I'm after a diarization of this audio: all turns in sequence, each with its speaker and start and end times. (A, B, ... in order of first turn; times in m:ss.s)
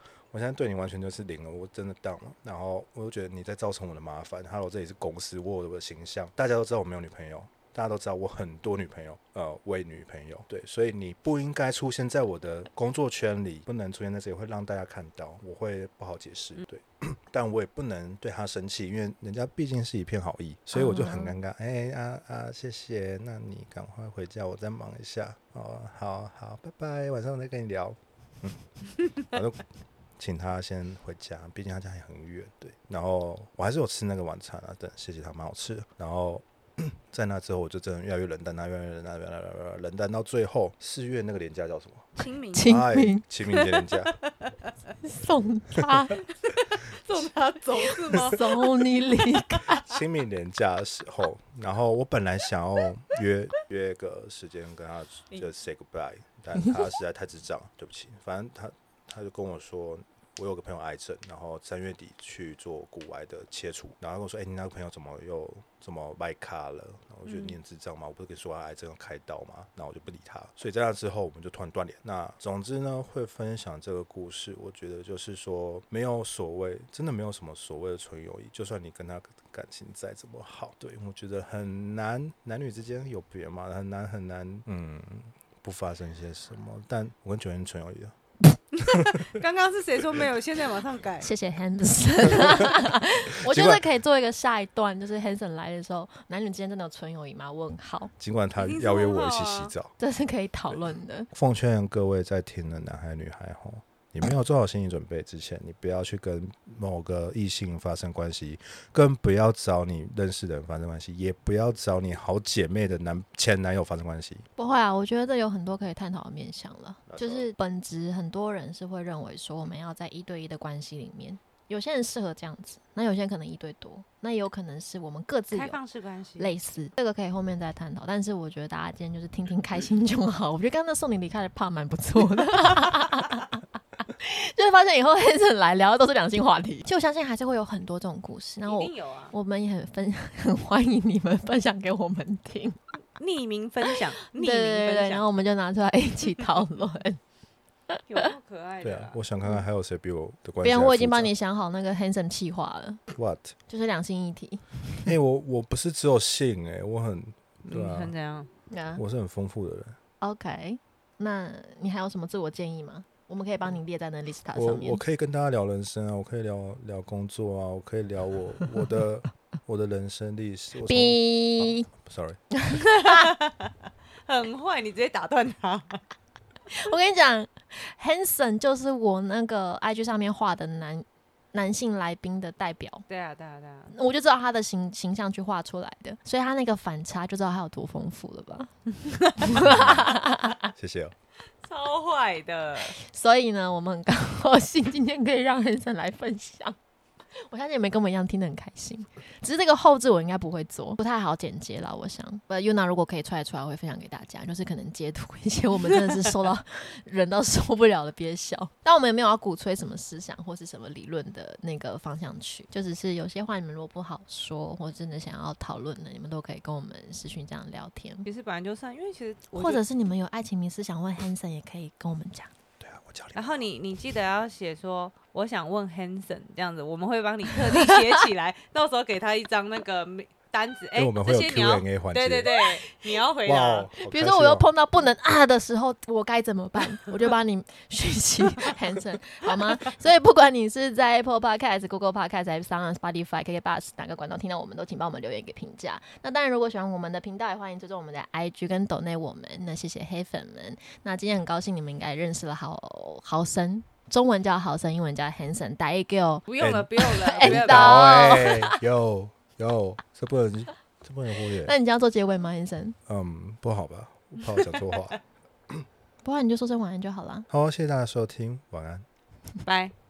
0:00.3-0:29.6 A
0:20.7-0:21.4 B
0:30.2-0:44.1 A
0:42.2-0:42.8 C
0:42.5-0:43.2 B
0:43.5-0:44.5 C
0:45.0-0:46.2 B
0:46.4-0:48.5 C
0:48.0-0:49.8 B
0:49.7-1:28.2 A
1:07.2-1:07.6 C
1:28.7-1:31.3 C
1:28.8-1:29.3 A
1:31.2-1:38.1 B
1:32.3-1:32.9 A
1:33.4-1:33.8 A
1:38.2-1:39.9 A
1:38.6-1:39.7 C
1:40.0-1:41.3 B
1:41.3-1:54.5 A
1:54.6-2:05.8 B
1:57.1-1:57.5 A
2:05.5-2:06.5 C
2:06.4-2:22.8 B
2:18.6-2:19.3 C
2:23.2-2:25.2 C
2:23.9-2:27.2 B
2:28.1-2:29.2 C
2:28.8-2:31.3 A
2:30.6-2:33.0 B
2:33.1-2:33.5 A
2:33.7-2:35.1 B
2:35.0-2:38.1 A
2:37.7-2:38.5 C
2:38.7-2:39.0 B
2:39.0-2:40.0 A
2:40.2-2:45.0 B
2:44.6-2:52.4 A
2:50.9-2:51.9 B
2:52.7-2:53.2 B
2:53.0-2:53.7 C
2:54.3-2:56.0 C
2:56.7-3:03.0 B
3:03.1-3:03.9 C
3:03.9-3:08.7 B
3:09.2-3:10.7 B
3:09.5-3:10.1 A
3:10.8-3:11.2 A
3:11.6-3:13.0 C
3:12.8-3:16.8 B
3:17.4-3:38.3 B
3:38.2-3:39.8 C
3:39.5-3:42.5 B
3:42.8-3:43.6 A
3:43.4-3:53.9 C
3:47.8-3:48.1 B
3:51.0-3:52.5 A
3:53.4-3:54.7 A
3:54.0-4:16.4 B
4:16.5-4:18.3 C
4:16.6-4:21.7 A
4:17.0-4:18.8 B
4:21.6-4:23.0 B
4:23.1-4:25.2 A
4:26.2-4:27.5 B
4:27.5-4:29.1 A
4:29.6-4:29.9 C